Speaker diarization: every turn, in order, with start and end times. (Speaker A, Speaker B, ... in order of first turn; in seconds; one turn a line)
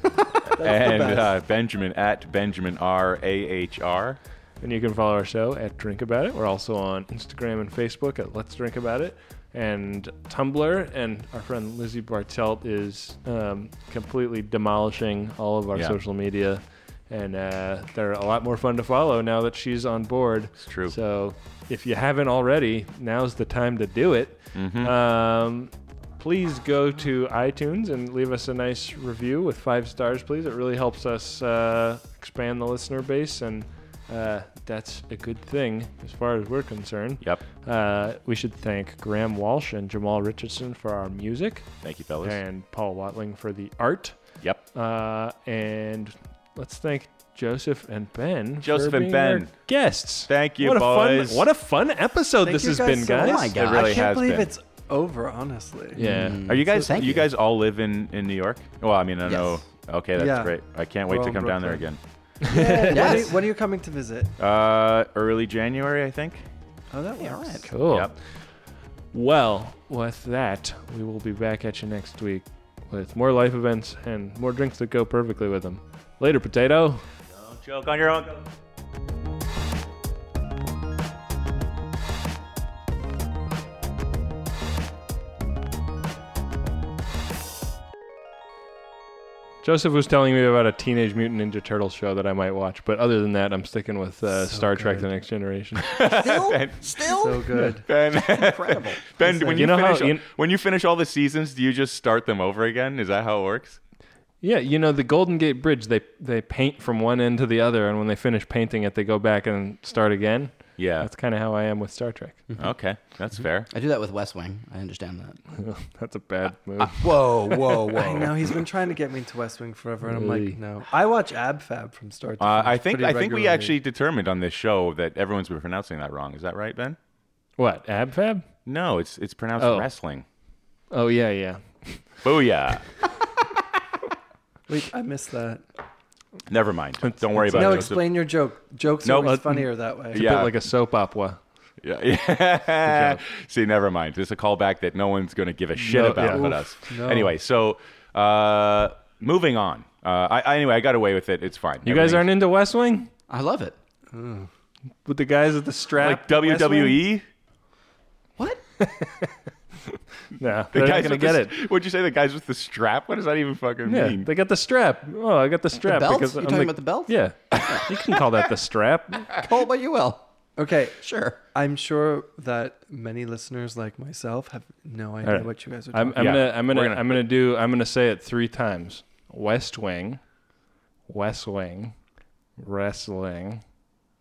Speaker A: 0.5-1.3
Speaker B: 0.6-4.2
Speaker C: 4.6-41.7
Speaker B: 20.6-20.9
Speaker B: 24.6-24.9
Speaker B: 41.8-42.4
Speaker C: 42.2-53.5
Speaker B: 48.6-49.7
Speaker B: 50.3-51.5
Speaker A: 52.4-56.0
Speaker D: 53.2-54.1
Speaker B: 53.5-54.5
Speaker C: 56.0-56.5
Speaker D: 56.0-57.3
Speaker B: 56.4-62.0
Speaker D: 59.2-59.6
Speaker A: 60.2-60.6
Speaker A: 61.1-61.9
Speaker C: 62.4-63.2
Speaker A: 62.4-64.3
Speaker D: 62.8-63.4
Speaker B: 64.4-66.4
Speaker A: 66.9-67.7
Speaker D: 67.2-67.7
Speaker C: 67.7-68.2
Speaker B: 67.9-68.2
Speaker C: 69.1-77.1
Speaker B: 77.3-78.5
Speaker C: 89.6-95.9
Speaker A: 94.4-95.1
Speaker B: 95.9-97.0
Speaker D: 96.0-97.6
Speaker A: 97.1-97.9
Speaker B: 97.9-103.8
Speaker D: 98.1-99.0
Speaker A: 99.3-99.5
Speaker C: 99.4-100.2
Speaker C: 104.4-112.5
Speaker B: 110.8-111.1
Speaker B: 112.6-113.7
Speaker D: 113.7-115.4
Speaker C: 115.5-118.0
Speaker B: 116.8-118.3
Speaker A: 117.9-123.8
Speaker C: 120.1-120.6
Speaker B: 122.4-127.0
Speaker C: 127.6-128.5
Speaker B: 128.7-130.2
Speaker C: 129.6-129.9
Speaker C: 130.9-132.1
Speaker B: 132.2-132.9
Speaker A: 134.7-135.7
Speaker B: 136.5-138.2
Speaker C: 137.0-137.9
Speaker A: 137.5-140.4
Speaker B: 139.0-139.5
Speaker C: 139.4-141.4
Speaker B: 140.1-140.5
Speaker B: 141.8-152.2
Speaker C: 142.8-143.2
Speaker C: 145.8-146.6
Speaker A: 146.2-147.3
Speaker C: 151.8-153.1
Speaker D: 153.3-153.8
Speaker A: 154.1-154.5
Speaker C: 155.1-157.0
Speaker B: 156.0-157.2
Speaker D: 158.4-158.6
Speaker C: 158.8-159.3
Speaker C: 160.3-161.5
Speaker B: 160.7-164.3
Speaker C: 163.9-169.4
Speaker D: 165.8-168.1
Speaker D: 169.3-170.3
Speaker A: 170.6-171.0
Speaker D: 170.9-171.4
Speaker A: 171.5-176.3
Speaker C: 175.2-180.2
Speaker B: 176.2-177.2
Speaker C: 181.1-182.0
Speaker C: 182.6-183.6